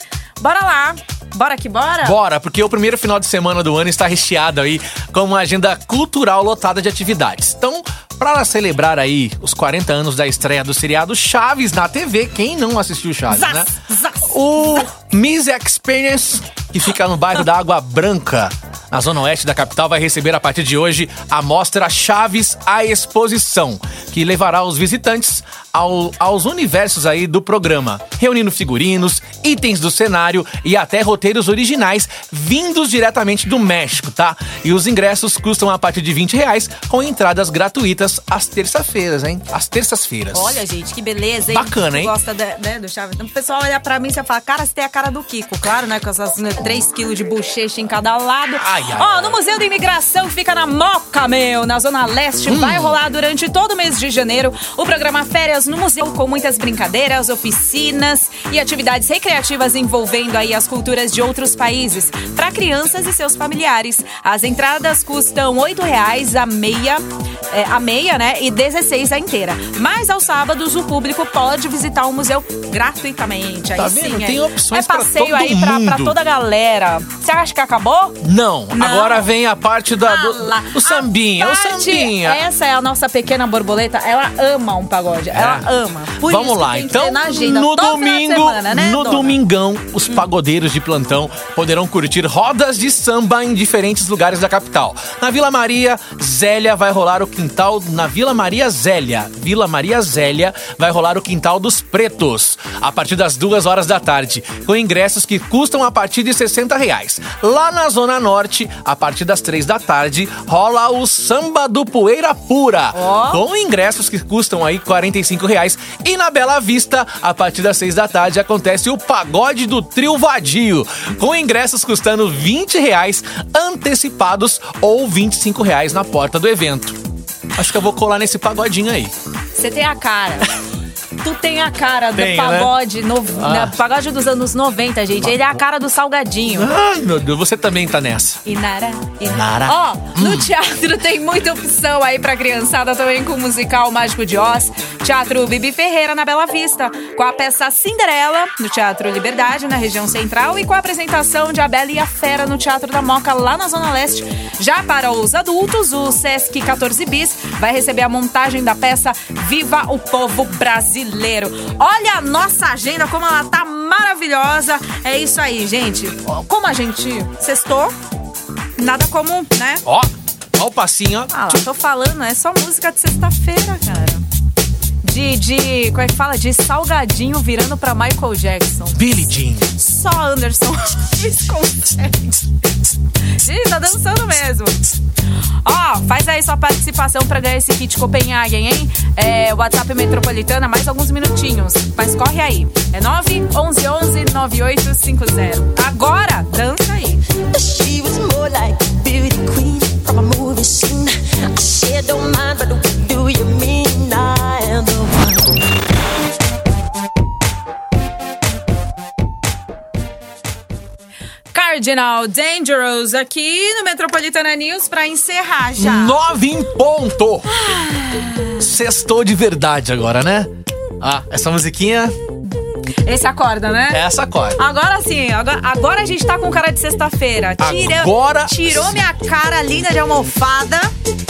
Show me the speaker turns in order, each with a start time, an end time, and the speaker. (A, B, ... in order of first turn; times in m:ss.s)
0:00.4-0:02.2 A
0:02.0-0:40.6 B
0:13.3-0:14.8 A
0:40.3-1:18.2 A
0:41.5-0:42.1 B
0:48.6-0:49.4 B
0:52.5-0:53.0 B
1:13.8-1:16.2 B
1:18.2-1:22.4 B
1:18.7-1:19.3 A
1:20.0-1:29.4 A
1:25.3-2:07.0 B
1:52.9-1:53.4 A
2:07.6-2:09.1 B
2:09.6-2:10.5 A
2:11.2-2:16.7 A
2:12.2-2:12.8 B
2:13.4-2:13.8 B
2:15.2-2:15.6 B
2:16.5-2:18.4 B
2:18.4-2:48.0 A
2:19.2-2:20.5 B
2:48.8-2:49.8 A
2:49.8-2:51.3 B
2:51.3-2:54.2 A
2:55.0-3:02.4 A
2:58.9-2:59.7 B
3:03.4-3:04.8 A
3:05.6-3:17.2 A
3:17.5-3:25.6 C
3:31.5-3:36.2 A
3:35.8-3:37.5 B
3:37.5-3:38.6 A
3:38.6-3:42.1 B
3:43.0-3:44.0 A
3:43.9-3:44.6 B
3:44.6-3:50.9 A
3:47.6-3:49.0 B